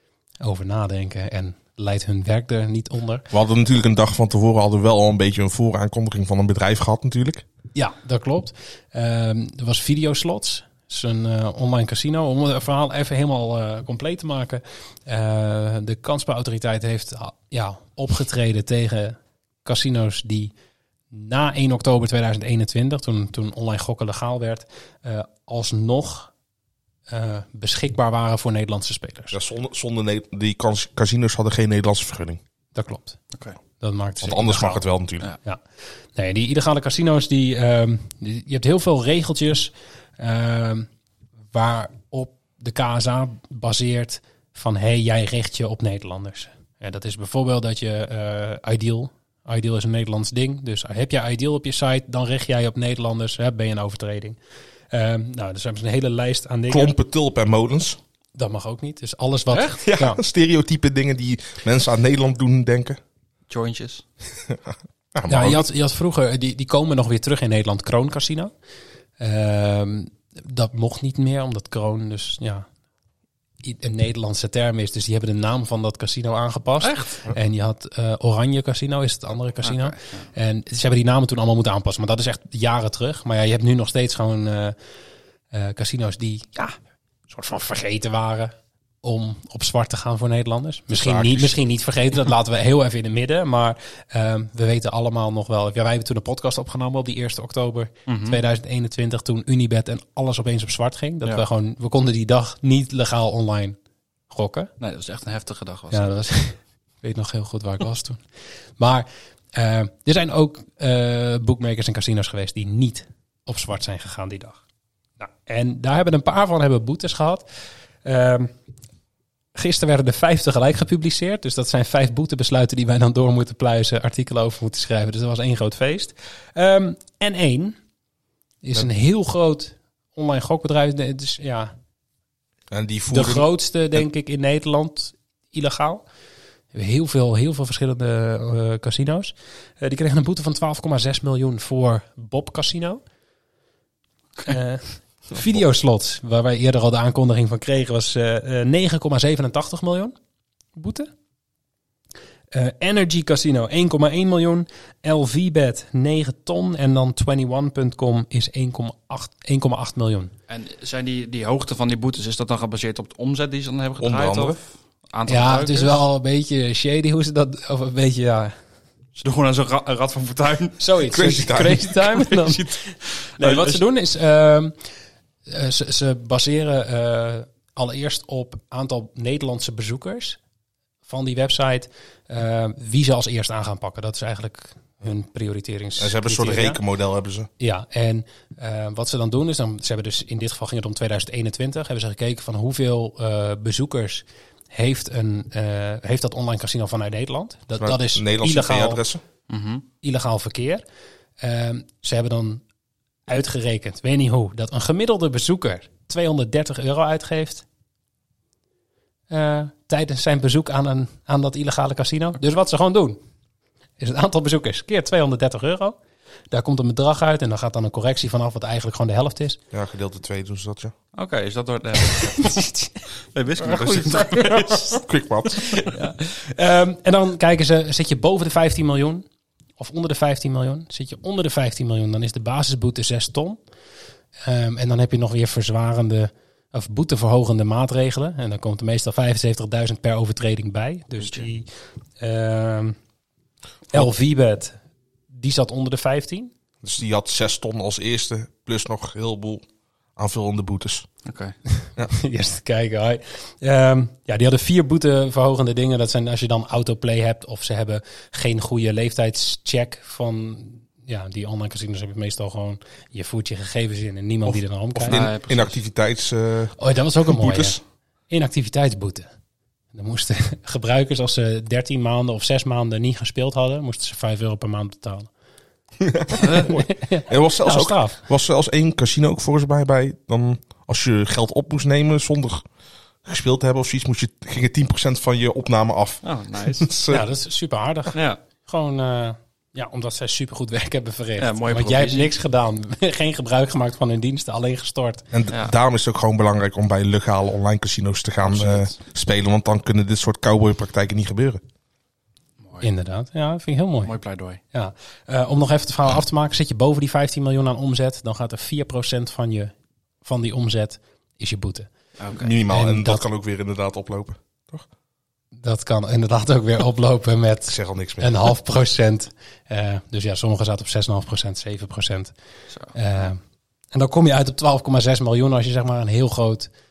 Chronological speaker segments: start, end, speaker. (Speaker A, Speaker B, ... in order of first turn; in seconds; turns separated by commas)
Speaker A: 0.4-3.2, Speaker B: 3.3-7.4, Speaker A: 7.7-20.5, Speaker A: 21.1-26.3, Speaker A: 27.1-29.4, Speaker B: 29.3-32.4, Speaker A: 32.7-33.2, Speaker A: 33.8-34.8, Speaker B: 34.2-35.3, Speaker A: 36.1-40.9, Speaker A: 41.5-54.4, Speaker A: 54.9-56.9, Speaker B: 56.7-58.0, Speaker A: 58.4-60.2, Speaker C: 59.5-59.8, Speaker B: 59.8-63.0, Speaker C: 63.5-64.0, Speaker B: 65.1-65.6, Speaker A: 65.3-68.5, Speaker A: 69.2-72.7, Speaker A: 73.6-84.7, Speaker C: 76.8-77.2, Speaker C: 79.6-80.2, Speaker A: 85.5-86.7, Speaker A: 87.3-103.8, Speaker B: 90.9-91.6, Speaker C: 98.1-98.4, Speaker A: 104.3-104.7, Speaker C: 104.8-106.2, Speaker A: 105.9-108.2, Speaker A: 108.8-114.6, Speaker A: 115.2-117.4, Speaker A: 118.0-118.5, Speaker A: 119.5-127.8, Speaker A: 128.6-131.7, Speaker B: 132.7-134.0, Speaker A: 133.1-136.0, Speaker A: 136.7-143.0, Speaker A: 144.4-150.1, Speaker A: 150.8-151.1, Speaker A: 152.5-160.3, Speaker C: 160.5-166.0, Speaker B: 164.0-164.6, Speaker A: 165.3-168.5, Speaker C: 169.2-170.8, Speaker A: 170.8-174.7, Speaker B: 171.1-171.9, Speaker C: 172.1-173.8, Speaker A: 175.5-180.4, Speaker A: 181.1-186.8, Speaker B: 186.0-187.5, Speaker A: 187.6-199.0, Speaker B: 197.8-199.2, Speaker C: 199.5-199.8, Speaker A: 200.0-200.8, Speaker A: 201.4-202.6, Speaker A: 203.3-207.6, Speaker A: 209.3-213.2, Speaker A: 214.0-215.9, Speaker A: 216.5-219.6, Speaker B: 219.7-220.9, Speaker C: 221.1-222.6, Speaker A: 222.0-223.0, Speaker C: 223.3-225.0, Speaker B: 223.6-225.8, Speaker A: 223.8-225.0, Speaker C: 225.8-226.1, Speaker A: 225.8-229.2, Speaker A: 229.8-233.6, Speaker A: 234.4-241.7, Speaker C: 241.2-241.5, Speaker A: 242.2-243.0, Speaker A: 243.9-244.8, Speaker A: 245.3-246.5, Speaker B: 246.8-249.6, Speaker B: 250.2-251.1, Speaker C: 251.2-251.5, Speaker A: 252.1-265.2, Speaker B: 264.4-267.8, Speaker C: 265.1-265.8, Speaker A: 266.8-267.8, Speaker A: 268.3-269.3, Speaker A: 269.9-275.3, Speaker B: 276.0-282.6, Speaker C: 276.4-276.7, Speaker A: 276.8-278.2, Speaker B: 283.2-287.2, Speaker C: 286.2-286.9, Speaker A: 287.1-295.2, Speaker C: 288.1-288.4, Speaker C: 291.4-292.3, Speaker B: 295.3-301.6, Speaker C: 298.4-299.0, Speaker A: 302.8-304.1, Speaker C: 304.0-304.6, Speaker A: 304.7-311.9, Speaker C: 312.2-312.5, Speaker B: 312.3-314.9, Speaker A: 312.7-313.2, Speaker A: 315.6-322.3, Speaker B: 317.7-318.5, Speaker C: 322.7-323.3, Speaker A: 322.9-323.4, Speaker A: 323.9-326.7